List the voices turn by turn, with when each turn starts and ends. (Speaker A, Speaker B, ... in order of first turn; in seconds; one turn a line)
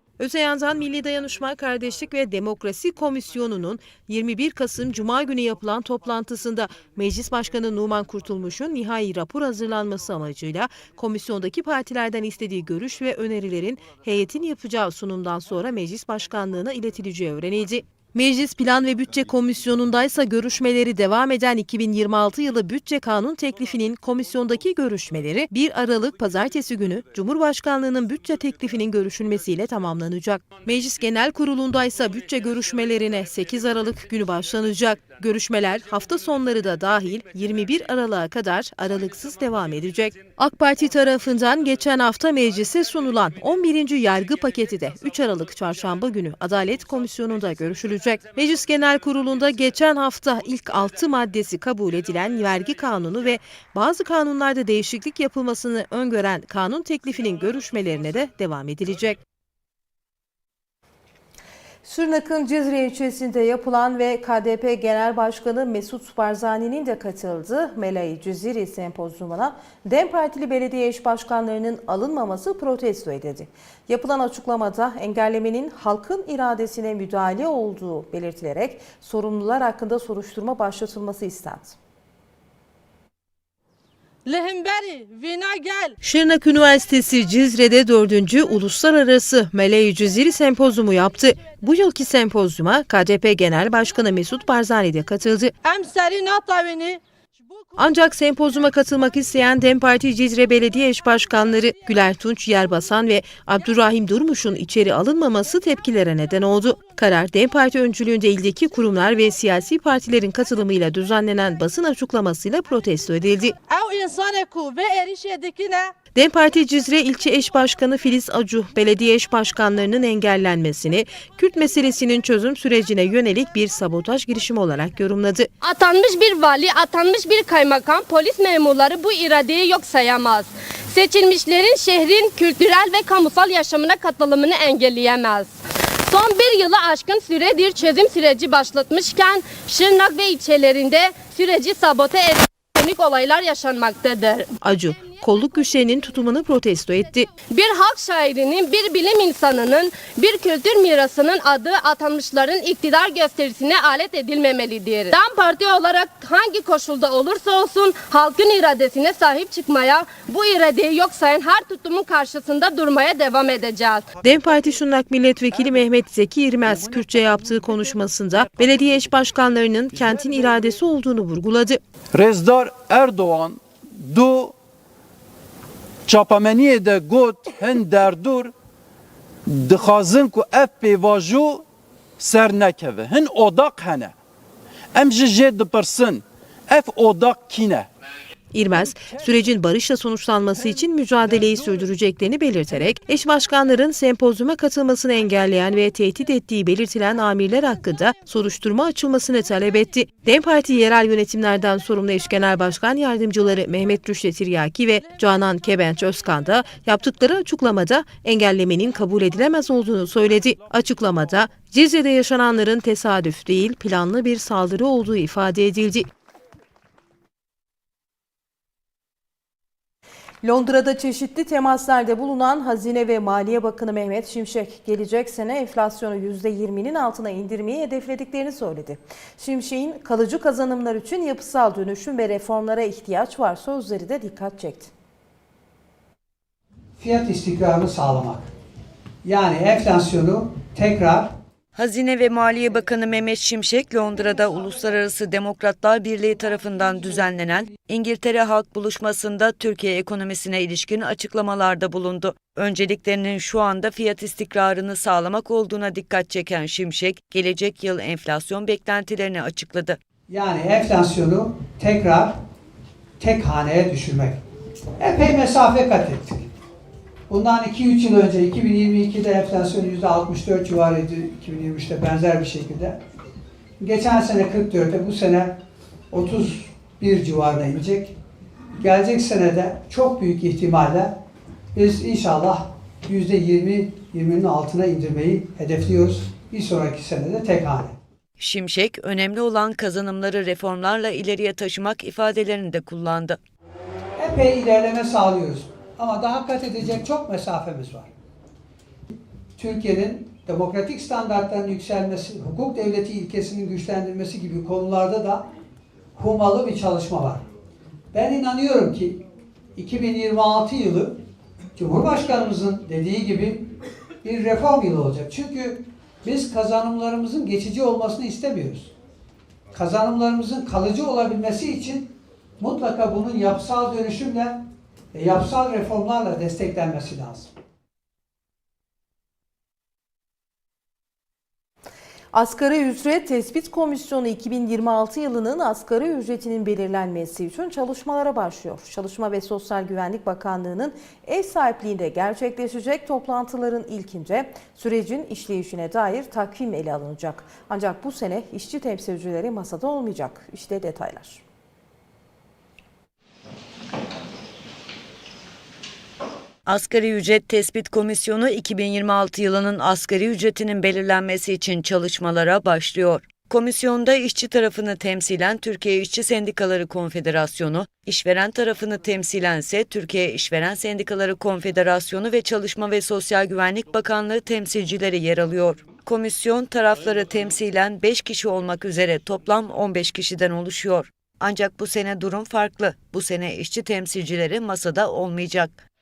Speaker A: 0.2-59.2
Speaker A: 61.8-81.8
Speaker B: 84.3-85.9
Speaker A: 86.0-95.5
Speaker B: 95.6-97.0
Speaker A: 97.8-113.5
Speaker B: 113.7-115.8
Speaker A: 116.1-125.5
Speaker C: 125.6-135.6
Speaker C: 136.1-144.5
Speaker A: 144.6-147.3
Speaker C: 147.5-164.1
Speaker A: 164.2-171.8
Speaker D: 172.1-174.5
Speaker D: 176.1-178.5
Speaker D: 179.5-181.6
Speaker D: 182.2-184.1
Speaker D: 184.9-187.9
Speaker A: 188.5-216.1
Speaker A: 220.4-234.9
Speaker E: 237.0-238.5
Speaker E: 239.2-241.3
Speaker F: 241.7-260.0
Speaker E: 260.3-262.4
Speaker E: 263.2-264.4
Speaker E: 265.0-266.5
Speaker E: 267.3-273.0
Speaker E: 273.8-275.6
Speaker E: 276.1-278.1
Speaker E: 278.8-281.1
Speaker E: 281.7-287.9
Speaker F: 288.4-293.4
Speaker E: 294.2-298.1
Speaker E: 299.6-305.4
Speaker E: 306.1-307.4
Speaker E: 308.1-309.2
Speaker E: 309.8-311.2
Speaker E: 311.8-313.7
Speaker E: 314.2-318.9
Speaker E: 319.7-327.5
Speaker A: 332.3-351.4
Speaker F: 356.6-385.8